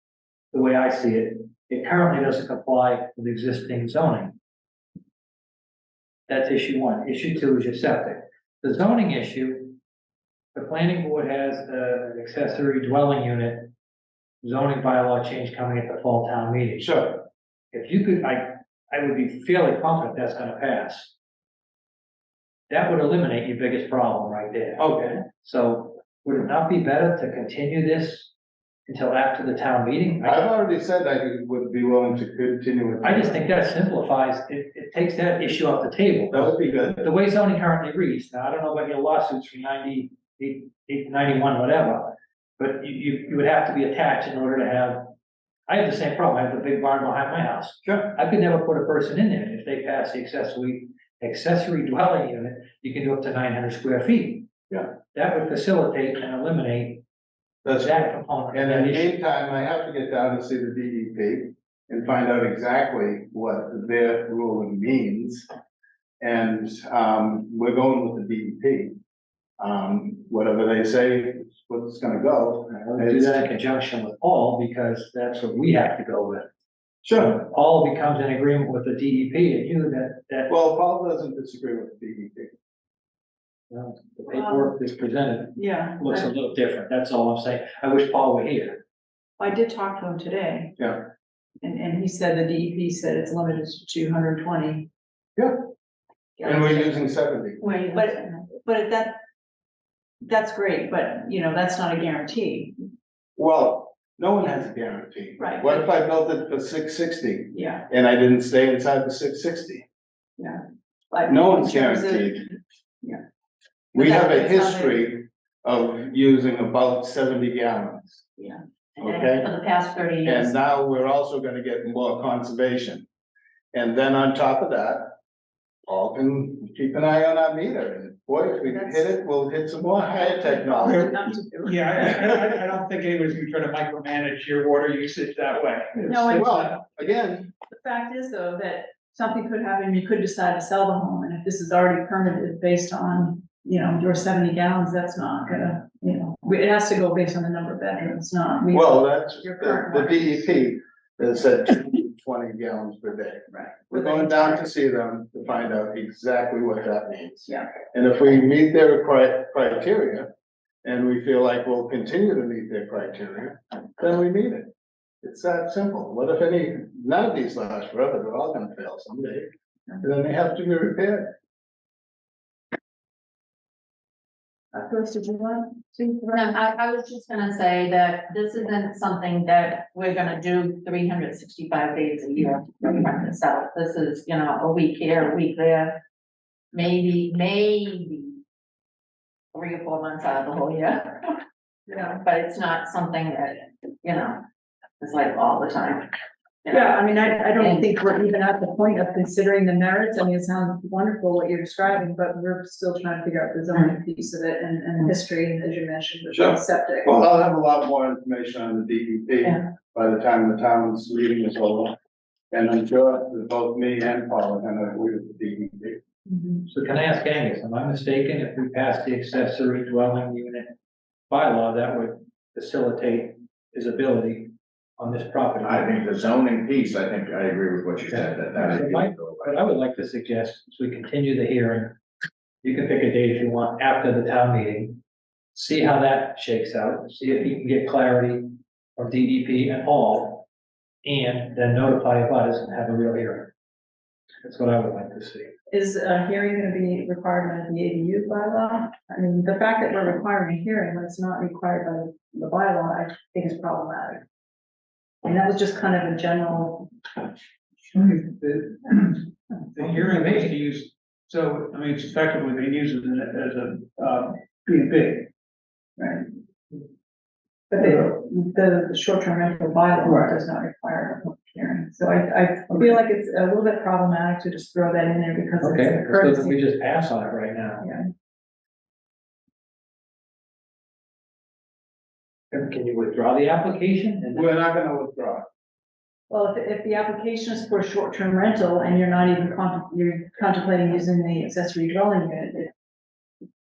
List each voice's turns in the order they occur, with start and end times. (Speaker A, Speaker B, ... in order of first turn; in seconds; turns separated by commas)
Speaker A: 0.5-4.3, Speaker A: 6.3-9.8, Speaker A: 10.6-13.7, Speaker A: 14.4-16.9, Speaker B: 16.8-17.2, Speaker A: 17.7-21.1, Speaker A: 22.7-28.3, Speaker B: 24.8-25.2, Speaker A: 28.9-30.4, Speaker B: 30.2-33.4, Speaker A: 33.0-45.1, Speaker B: 36.3-37.1, Speaker A: 45.7-54.5, Speaker B: 47.9-48.1, Speaker A: 55.1-57.0, Speaker B: 57.6-65.5, Speaker A: 57.8-59.1, Speaker B: 66.2-69.0, Speaker B: 69.6-73.5, Speaker A: 72.7-76.5, Speaker B: 77.0-77.4, Speaker A: 77.1-80.5, Speaker B: 80.5-82.5, Speaker A: 83.7-88.8, Speaker C: 84.3-84.7, Speaker C: 85.6-86.3, Speaker C: 89.4-90.8, Speaker C: 91.6-94.9, Speaker C: 96.4-96.9, Speaker B: 96.4-97.6, Speaker D: 97.6-98.1, Speaker C: 97.7-99.2, Speaker C: 100.2-102.8, Speaker B: 103.4-109.9, Speaker C: 105.4-105.8, Speaker C: 107.5-107.9, Speaker C: 111.1-113.2, Speaker B: 111.3-112.5, Speaker B: 113.9-118.2, Speaker C: 114.0-115.0, Speaker D: 119.0-120.5, Speaker B: 119.0-119.5, Speaker B: 120.2-123.0, Speaker B: 123.7-125.1, Speaker B: 125.9-131.2, Speaker C: 128.7-129.1, Speaker C: 130.2-132.4, Speaker E: 131.6-136.8, Speaker C: 136.1-136.5, Speaker B: 136.3-137.5, Speaker C: 137.7-150.4, Speaker B: 148.7-160.3, Speaker C: 153.5-154.7, Speaker B: 160.8-164.7, Speaker B: 165.2-169.5, Speaker B: 170.0-171.3, Speaker C: 174.7-176.5, Speaker D: 176.3-186.0, Speaker D: 186.7-188.4, Speaker D: 189.5-191.4, Speaker C: 191.9-192.2, Speaker D: 191.9-194.4, Speaker D: 195.0-196.1, Speaker D: 196.6-197.9, Speaker C: 196.7-207.1, Speaker B: 206.3-211.9, Speaker B: 212.5-216.0, Speaker C: 216.3-216.6, Speaker A: 216.7-220.7, Speaker A: 221.3-226.0, Speaker F: 225.6-229.6, Speaker A: 228.1-232.0, Speaker A: 232.6-235.0, Speaker A: 235.5-240.5, Speaker A: 241.0-243.5, Speaker A: 244.4-245.5, Speaker C: 245.7-254.2, Speaker C: 255.2-256.9, Speaker E: 257.9-259.1, Speaker E: 259.8-265.3, Speaker A: 259.8-260.6, Speaker C: 266.0-266.3, Speaker C: 267.7-276.6, Speaker A: 275.6-277.9, Speaker C: 277.8-278.1, Speaker A: 282.5-284.5, Speaker B: 284.3-285.5, Speaker C: 286.3-292.7